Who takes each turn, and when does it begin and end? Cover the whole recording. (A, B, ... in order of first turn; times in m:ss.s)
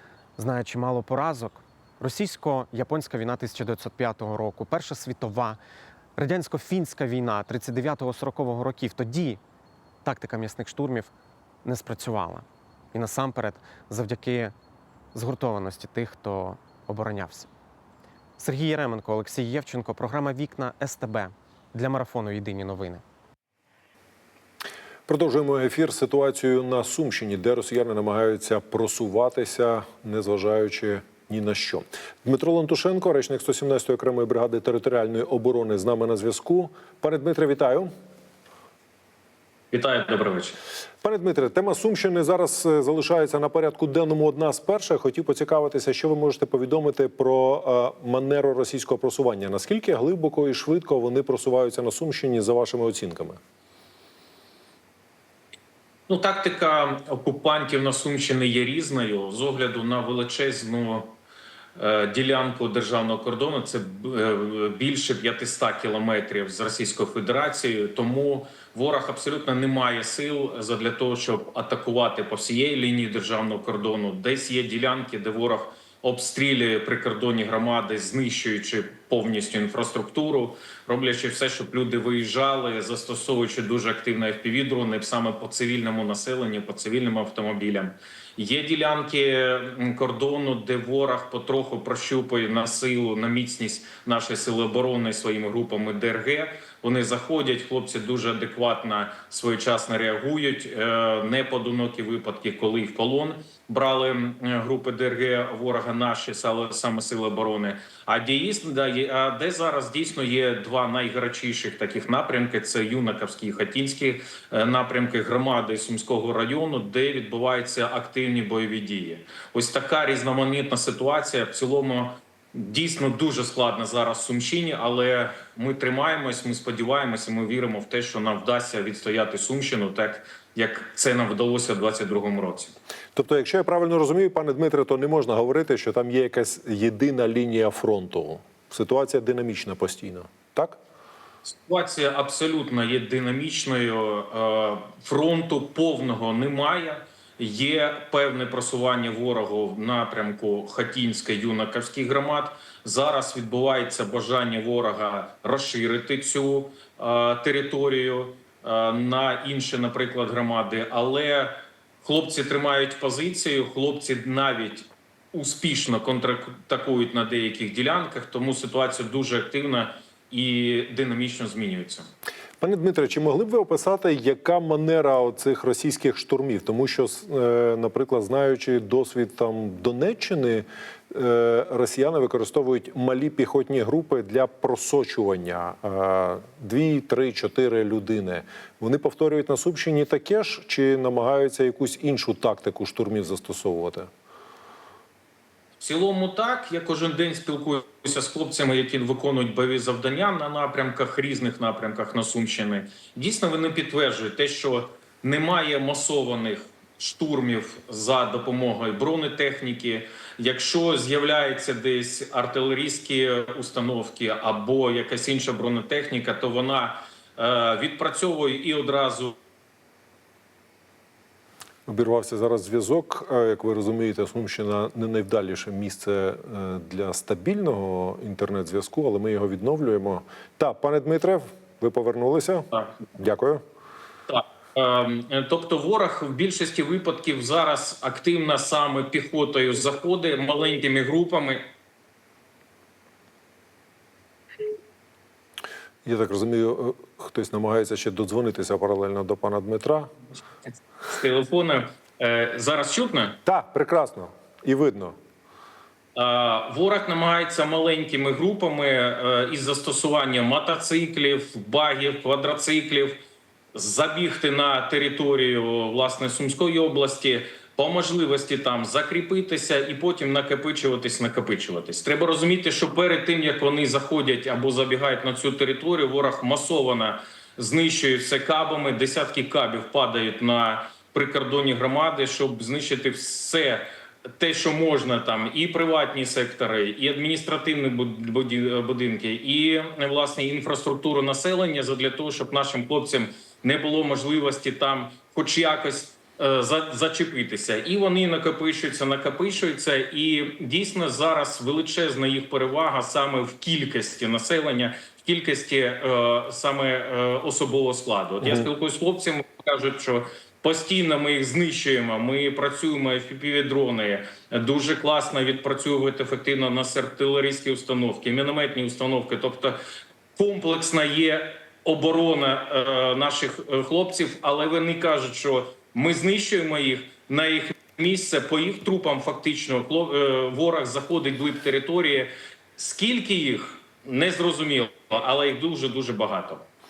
0:00.4-0:05.6 A
0:06.2-0:09.4 A
0:10.0-0:11.1 A
0:11.6-0:14.5 A
0:15.1-0:17.5 A
0:18.4-0:23.0 A
0:25.1-0:37.9 B
0:39.7-0:40.6 C
0:41.0-0:53.4 B
0:56.1-1:01.1 C
1:01.8-2:12.7 C
2:13.2-2:20.8 B
2:21.5-2:52.1 C
2:52.6-3:14.1 B
3:15.8-3:39.4 C
3:41.9-3:53.6 B
3:54.3-4:01.6 C
4:06.0-4:10.1 B
4:10.7-4:13.4 C
4:13.4-4:15.2 B
4:16.2-4:23.2 C
4:23.8-4:43.9 C
4:44.4-5:19.8 C
5:20.4-5:36.6 C